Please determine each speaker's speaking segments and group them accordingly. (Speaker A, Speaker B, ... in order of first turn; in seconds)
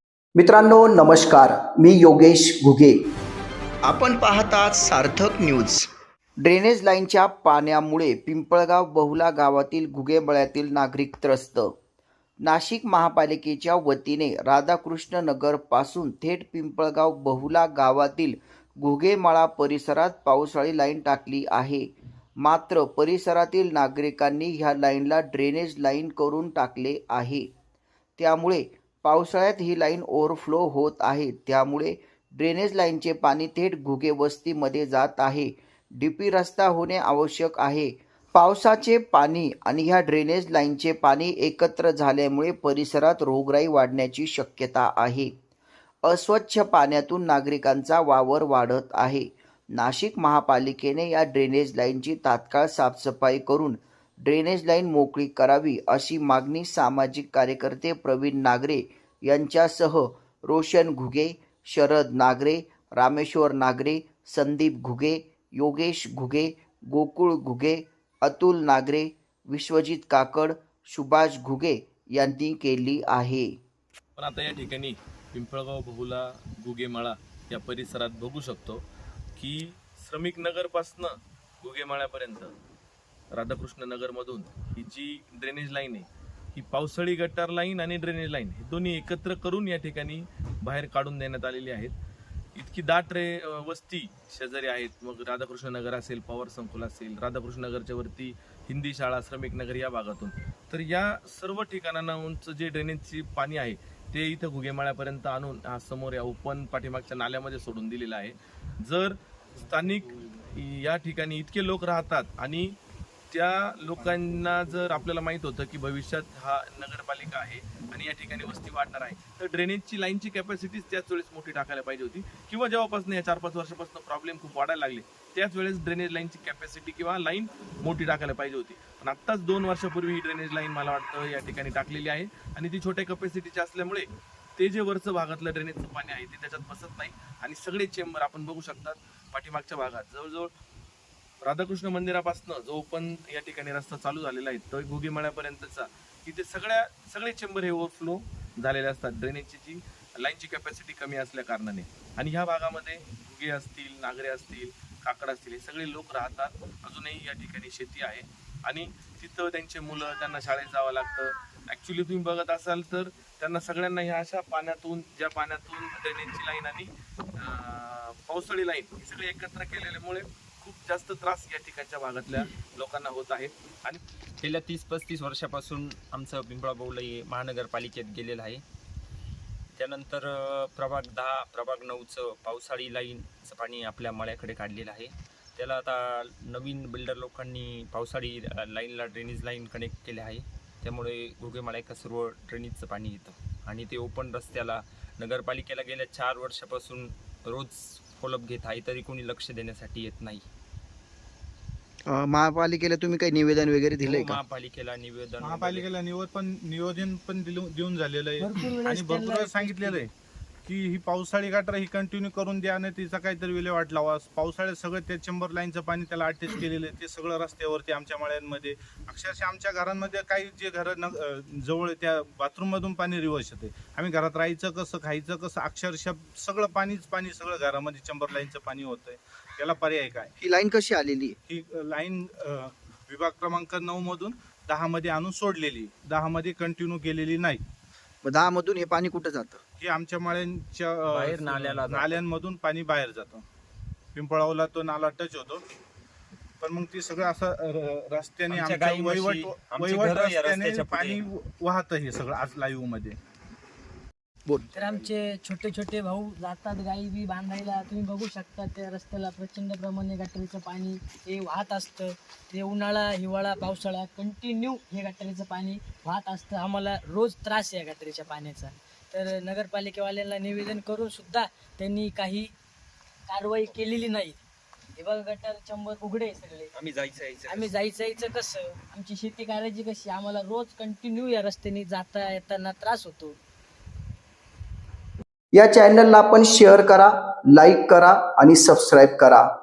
Speaker A: 0.8-1.4, 3.9-5.9, 6.4-11.7, 12.4-21.8, 22.4-27.5, 28.2-45.3, 46.1-73.5, 202.1-204.4, 230.4-231.4, 238.2-239.6
Speaker B: 74.2-78.8, 79.4-82.5, 83.3-91.9, 92.6-112.7, 113.3-134.1, 134.6-140.5, 141.4-174.0
Speaker C: 114.3-114.7, 205.4-210.1, 210.7-230.3, 231.5-237.6, 239.8-243.4, 244.2-245.6, 246.6-253.2, 254.8-255.1
Speaker D: 174.4-178.6, 179.7-200.5, 204.0-205.9, 241.1-242.2, 248.5-251.2, 276.7-277.7
Speaker E: 208.4-210.1, 254.7-272.5, 273.3-274.4, 275.0-276.7, 277.5-283.4
Speaker F: 285.9-287.0, 287.6-289.4